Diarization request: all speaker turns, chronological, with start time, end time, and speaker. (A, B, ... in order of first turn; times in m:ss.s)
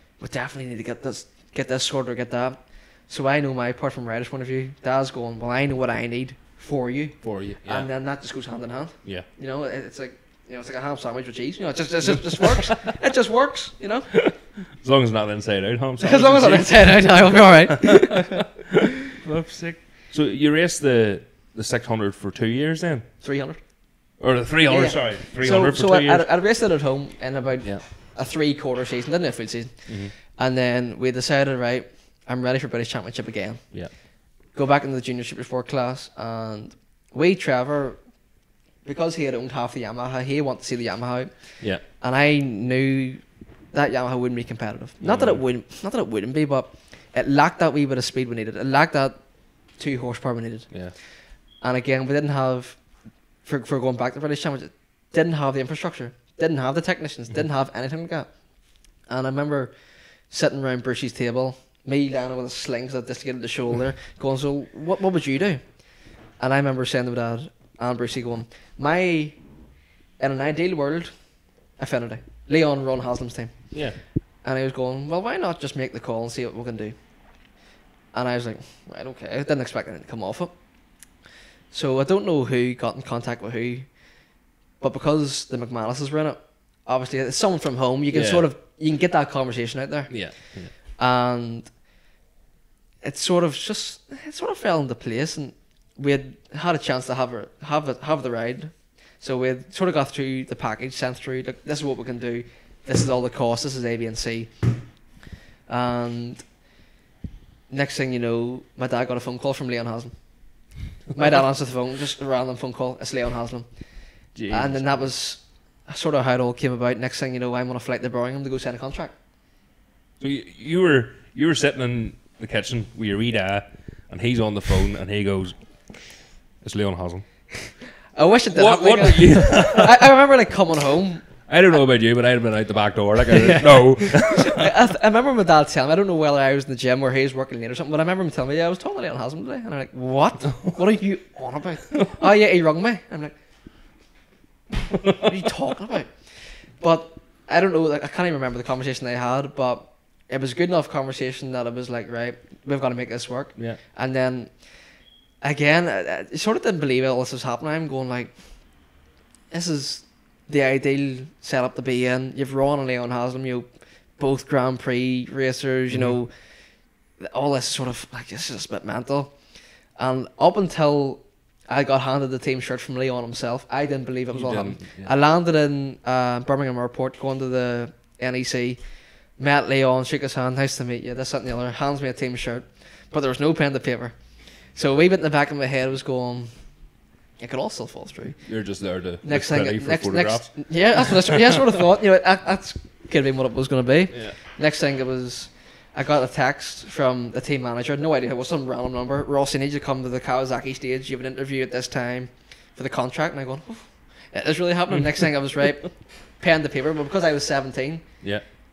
0:00.2-0:14.1 A
0:07.2-0:07.9 B
0:12.0-0:12.9 B
0:14.1-0:23.0 B
0:16.0-0:18.4 A
0:23.2-0:23.6 A
0:24.2-0:26.2 B
0:24.7-0:33.6 A
0:29.9-0:30.1 B
0:34.5-0:38.0 A
0:38.8-0:43.2 A
0:43.7-0:49.2 A
0:45.0-0:45.4 B
0:49.8-0:50.7 A
0:50.7-0:50.9 B
0:51.6-0:52.8 A
0:53.4-0:58.3 A
0:59.1-0:59.7 A
1:00.3-1:05.6 A
1:06.4-1:09.4 A
1:10.2-1:11.1 A
1:11.8-1:13.7 A
1:14.4-1:16.9 A
1:18.1-1:20.5 A
1:21.7-1:23.9 A
1:24.8-1:30.2 A
1:28.1-1:28.4 B
1:30.1-1:30.7 B
1:31.0-1:31.7 A
1:33.0-1:44.5 A
1:45.7-1:46.4 A
1:47.7-1:50.1 A
1:51.1-1:53.6 A
1:54.3-1:55.1 B
1:54.5-1:59.1 A
2:00.2-2:05.6 B
2:06.6-2:07.3 B
2:08.1-2:11.2 A
2:08.5-2:10.0 B
2:11.5-2:14.7 B
2:14.1-2:23.3 A
2:20.5-2:20.8 B
2:21.9-2:22.2 B
2:24.7-2:25.4 B
2:25.2-2:34.5 A
2:35.4-2:38.3 A
2:39.5-2:46.3 A
2:45.9-2:46.2 B
2:47.2-2:49.3 A
2:50.0-2:58.8 A
2:54.3-2:55.1 B
2:59.4-3:04.1 A
3:04.7-3:06.5 A
3:07.4-3:08.4 A
3:08.4-3:11.7 B
3:09.2-3:28.0 A
3:14.1-3:14.4 B